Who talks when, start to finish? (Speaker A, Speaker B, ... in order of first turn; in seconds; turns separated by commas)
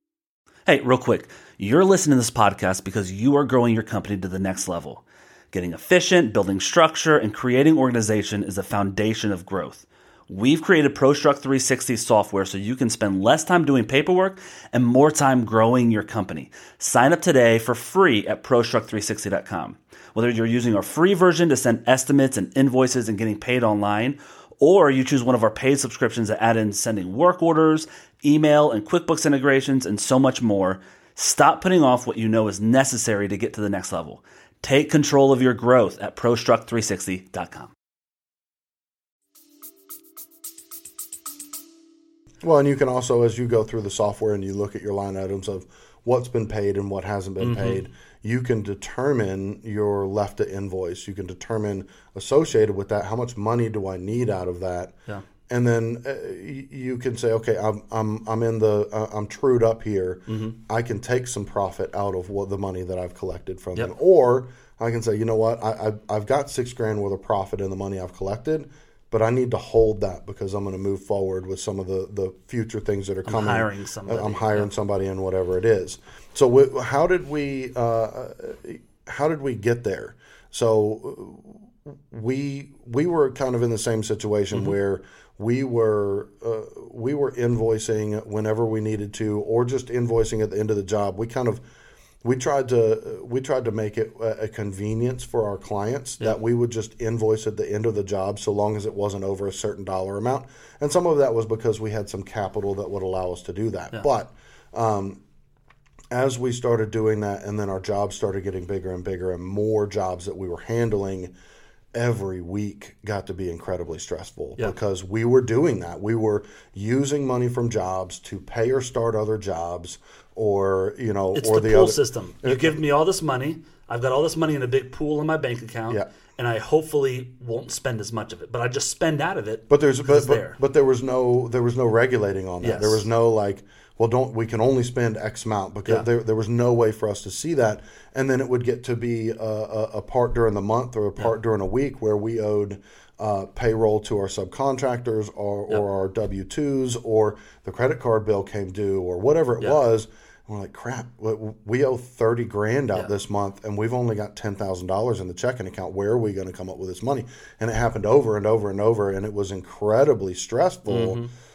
Speaker A: 0.7-37.7, Speaker B: 42.4-55.0, Speaker A: 47.4-47.8, Speaker B: 55.5-91.6, Speaker A: 60.3-60.5, Speaker A: 73.2-74.7, Speaker B: 92.2-105.2, Speaker B: 106.1-111.3, Speaker B: 111.9-122.8, Speaker A: 121.3-130.6, Speaker B: 129.7-161.2, Speaker A: 132.6-133.1, Speaker A: 160.9-161.3